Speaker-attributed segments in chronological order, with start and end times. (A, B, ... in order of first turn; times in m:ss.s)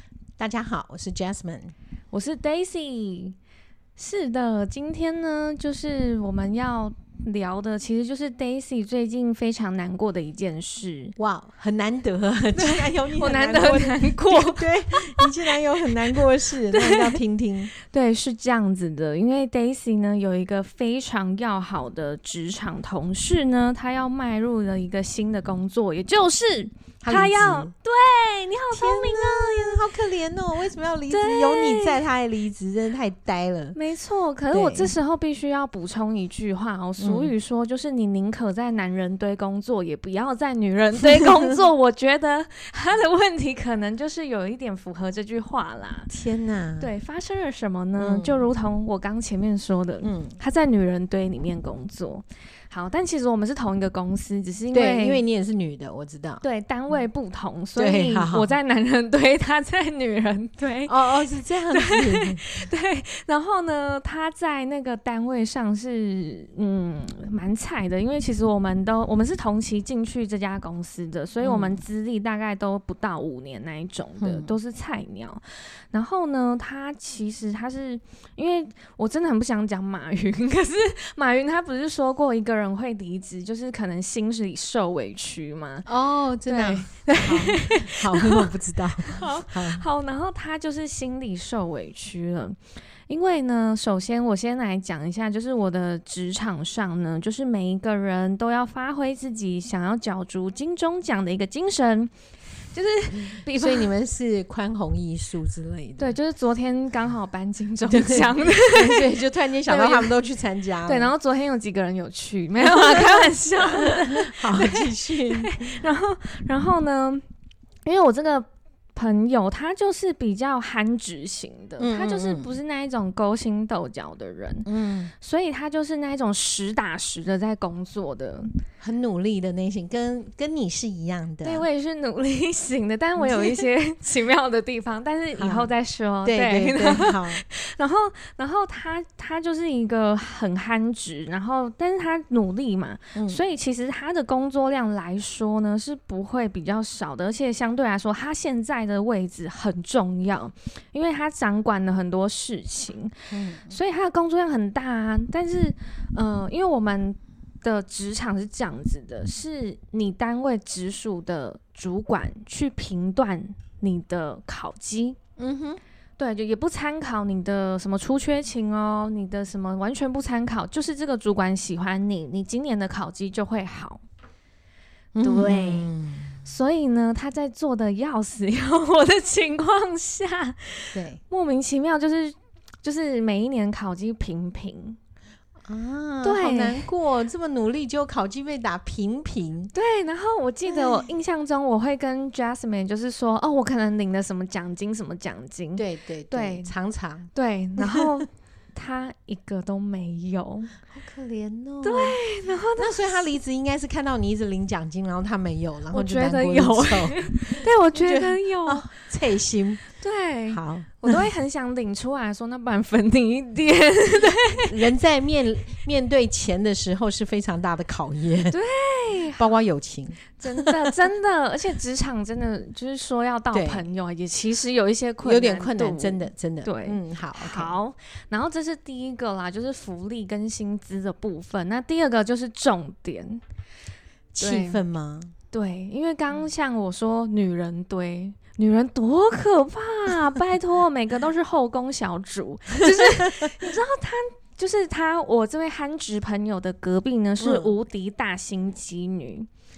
0:00.4-0:01.7 A
0:02.1-0:03.4 B
0:04.0-0:11.1 B
0:11.2-0:17.7 A
0:12.5-0:16.0 B
0:16.7-0:17.2 B
0:17.8-0:29.8 B
0:27.0-0:27.7 A
0:28.7-0:33.8 A
0:31.1-0:32.0 B
0:33.7-0:46.1 B
0:34.5-0:34.9 A
0:37.0-0:37.3 A
0:41.1-0:41.6 A
0:46.1-0:46.9 A
0:46.8-0:55.2 B
0:48.0-0:48.5 A
0:50.0-0:50.4 A
0:54.7-0:56.4 A
0:56.4-1:01.0 B
0:57.8-0:58.5 A
1:00.8-1:02.6 A
1:01.7-1:25.8 B
1:11.4-1:11.8 A
1:14.2-1:14.6 A
1:25.8-1:29.8 A
1:26.5-1:32.6 B
1:33.1-1:42.1 B
1:42.7-1:43.9 B
1:43.3-1:46.2 A
1:46.0-1:49.1 B
1:47.8-1:51.1 A
1:49.6-1:50.1 B
1:50.8-1:57.2 B
1:52.6-1:55.5 A
1:57.8-2:08.6 B
2:01.8-2:02.6 A
2:04.6-2:05.1 A
2:08.8-2:11.6 A
2:11.4-2:33.1 B
2:13.2-2:13.7 A
2:15.4-2:15.7 A
2:16.2-2:17.4 A
2:23.1-2:23.4 A
2:33.3-2:33.8 A
2:33.7-2:45.2 B
2:45.4-2:45.8 A
2:46.2-2:54.0 B
2:55.1-2:56.4 A
2:55.2-2:55.9 B
2:56.4-3:05.0 B
3:00.9-3:01.2 A
3:05.6-3:09.7 A
3:06.2-3:06.9 B
3:09.7-3:16.7 B
3:10.7-3:11.1 A
3:15.8-3:17.3 A
3:17.3-3:20.7 B
3:20.9-3:22.2 A
3:21.8-3:23.0 B
3:22.8-3:29.8 A
3:25.9-3:28.9 B
3:30.0-3:34.7 B
3:30.5-3:31.2 A
3:34.7-3:38.6 A
3:38.5-3:39.5 B
3:39.3-3:41.0 A
3:40.4-3:53.4 B
3:43.5-3:43.9 A
3:45.2-3:47.8 A
3:54.3-3:55.3 A
3:54.4-3:54.8 B
3:55.5-4:09.5 B
4:07.4-4:07.7 A